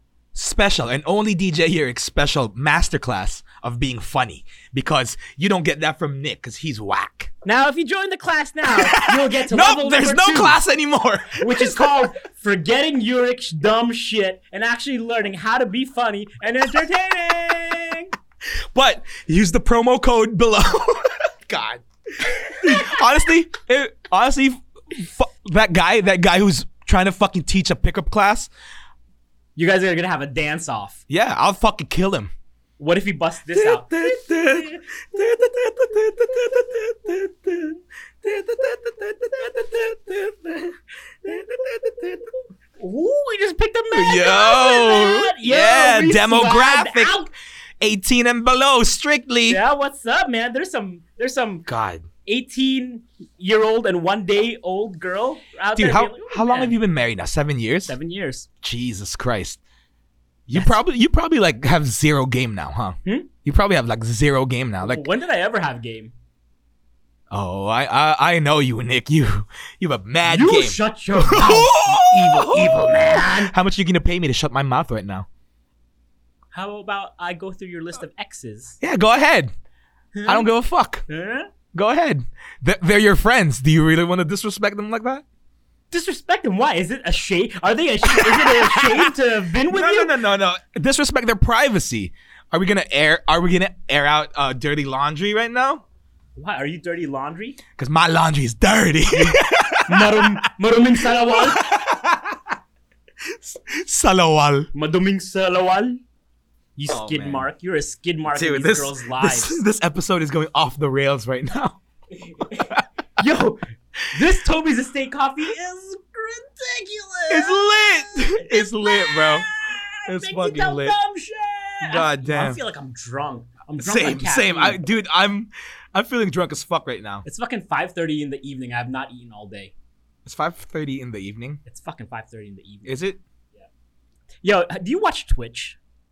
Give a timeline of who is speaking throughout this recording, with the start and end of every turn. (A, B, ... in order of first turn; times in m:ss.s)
0:00.3-0:07.3 A
0:07.4-0:10.6 B
0:08.7-0:12.1 A
0:11.4-0:18.1 B
0:18.7-0:28.5 A
0:29.6-0:31.0 B
0:31.1-0:32.3 A
0:32.8-0:34.8 B
0:33.5-0:42.3 A
0:42.8-0:47.3 B
0:43.9-0:47.3 A
0:47.8-0:49.6 A
0:49.5-0:51.6 B
0:51.6-0:52.1 A
0:52.2-0:56.8 B
0:55.8-0:57.9 A
0:57.9-0:58.5 B
0:58.6-0:59.6 A
1:00.5-1:05.0 A
1:04.8-1:06.1 B
1:07.3-1:15.3 A
1:10.2-1:13.5 B
1:16.5-1:18.8 B
1:18.8-1:19.5 A
1:20.1-1:20.5 B
1:20.2-1:21.0 A
1:21.1-1:21.5 B
1:21.7-1:25.2 A
1:25.9-1:30.1 B
1:28.1-1:29.1 A
1:29.7-1:35.8 A
1:36.4-1:37.6 B
1:37.8-1:40.5 A
1:39.9-1:41.7 B
1:41.3-1:42.4 A
1:43.4-1:44.7 A
1:44.7-1:46.0 B
1:46.8-1:49.6 B
1:46.9-1:47.4 A
1:48.3-1:51.8 A
1:52.2-1:53.6 B
1:52.4-1:52.8 A
1:54.1-2:04.8 B
1:57.3-1:59.5 A
2:00.0-2:01.0 A
2:01.8-2:02.6 A
2:03.8-2:07.2 A
2:07.2-2:09.7 B
2:10.2-2:11.6 A
2:11.6-2:13.0 B
2:12.8-2:13.2 A
2:14.4-2:15.8 B